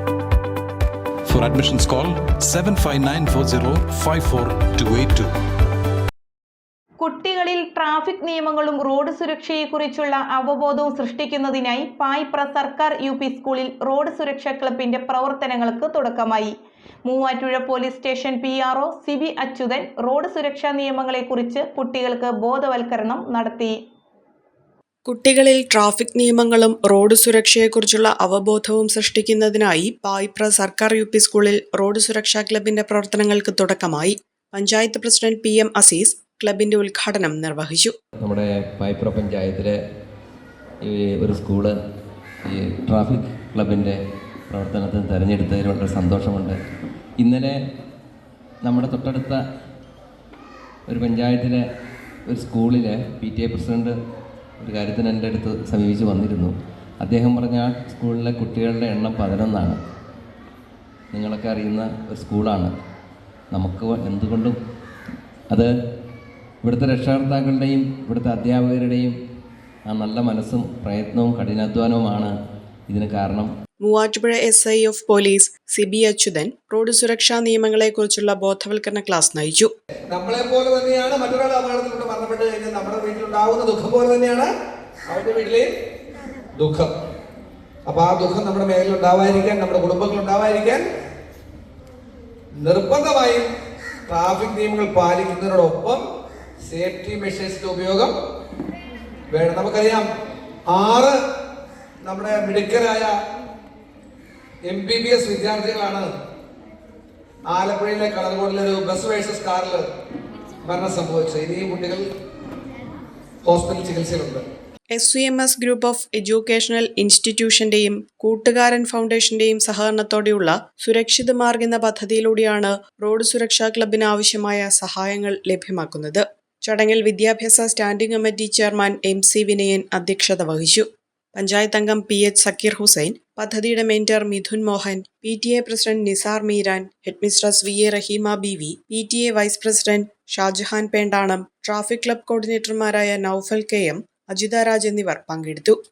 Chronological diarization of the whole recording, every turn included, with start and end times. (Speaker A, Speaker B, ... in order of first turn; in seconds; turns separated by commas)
Speaker A: 1.3-5.3, Speaker B: 7.0-16.5, Speaker B: 17.1-23.7, Speaker C: 25.1-37.9, Speaker D: 38.2-39.8, Speaker D: 40.8-41.7, Speaker D: 42.5-44.0, Speaker D: 44.5-46.6, Speaker D: 47.2-47.5, Speaker D: 48.6-49.4, Speaker D: 50.9-51.6, Speaker D: 52.3-54.0, Speaker D: 54.6-59.8, Speaker D: 61.1-62.7, Speaker D: 63.5-64.6, Speaker D: 66.6-69.1, Speaker D: 69.9-72.3, Speaker D: 72.9-73.5, Speaker C: 73.8-79.7, Speaker E: 80.1-84.5, Speaker E: 85.1-85.7, Speaker E: 86.5-86.9, Speaker E: 87.9-90.8, Speaker E: 92.6-93.5, Speaker E: 94.1-96.0, Speaker E: 96.7-98.1, Speaker E: 99.3-100.0, Speaker E: 100.7-101.1, Speaker E: 102.0-103.1, Speaker E: 104.7-106.1, Speaker E: 107.5-109.9, Speaker E: 110.6-112.1, Speaker E: 113.4-114.4, Speaker C: 114.9-145.8